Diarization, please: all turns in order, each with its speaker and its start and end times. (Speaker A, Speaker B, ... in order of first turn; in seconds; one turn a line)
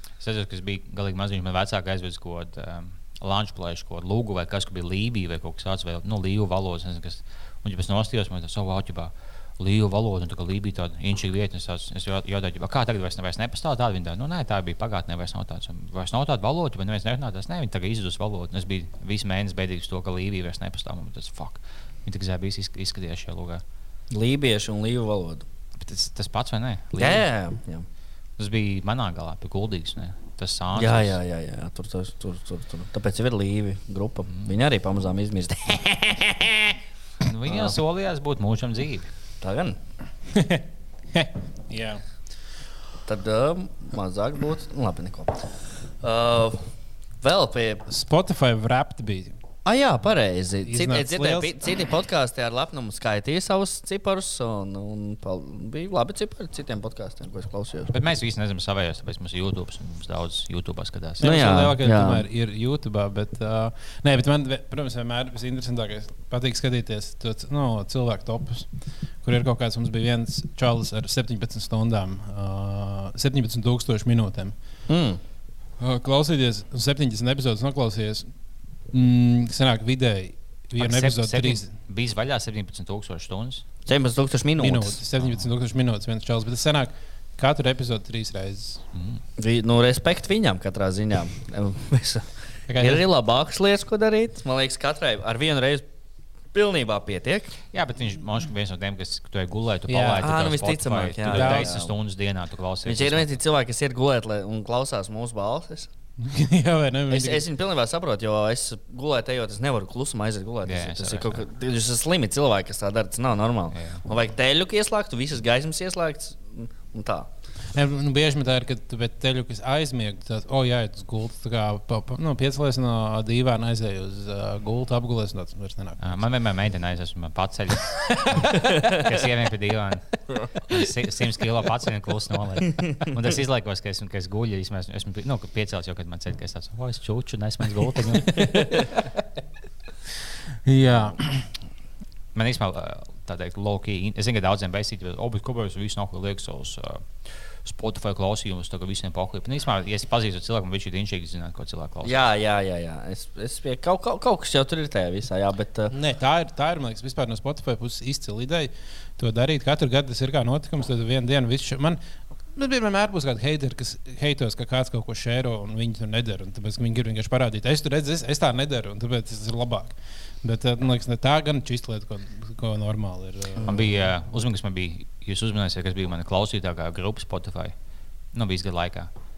Speaker A: 0.2-23.6
Speaker B: 24.1-25.5
Speaker A: 25.8-27.3
Speaker B: 27.0-27.9
Speaker A: 28.4-31.2
Speaker B: 30.8-36.8
Speaker A: 37.2-39.1
Speaker B: 37.5-37.8
Speaker B: 39.4-39.8
Speaker C: 40.3-42.0
Speaker B: 43.1-45.5
Speaker B: 46.0-46.6
Speaker B: 47.2-47.9
Speaker C: 47.9-49.4
Speaker B: 49.6-57.9
Speaker C: 50.6-51.5
Speaker A: 57.9-61.3
Speaker B: 61.2-62.2
Speaker C: 61.2-68.7
Speaker C: 69.2-74.5
Speaker B: 74.9-75.2
Speaker C: 75.8-78.3
Speaker C: 78.9-81.7
Speaker A: 80.8-83.7
Speaker B: 83.9-85.0
Speaker C: 84.6-88.8
Speaker A: 88.9-89.2
Speaker B: 89.4-95.9
Speaker C: 92.7-93.1
Speaker B: 96.5-97.5
Speaker A: 97.7-103.3
Speaker C: 99.9-100.3
Speaker B: 100.2-101.9
Speaker C: 101.3-101.7
Speaker B: 102.8-105.9
Speaker C: 106.2-107.5
Speaker B: 107.1-117.3
Speaker A: 110.7-111.5
Speaker A: 113.7-114.0
Speaker C: 117.7-126.3
Speaker A: 126.0-130.1
Speaker A: 130.6-138.8
Speaker C: 138.3-139.1
Speaker C: 140.7-141.4
Speaker A: 142.3-152.2
Speaker B: 152.0-155.9
Speaker C: 155.9-162.0
Speaker C: 162.6-173.9
Speaker A: 173.6-177.7
Speaker A: 178.3-179.1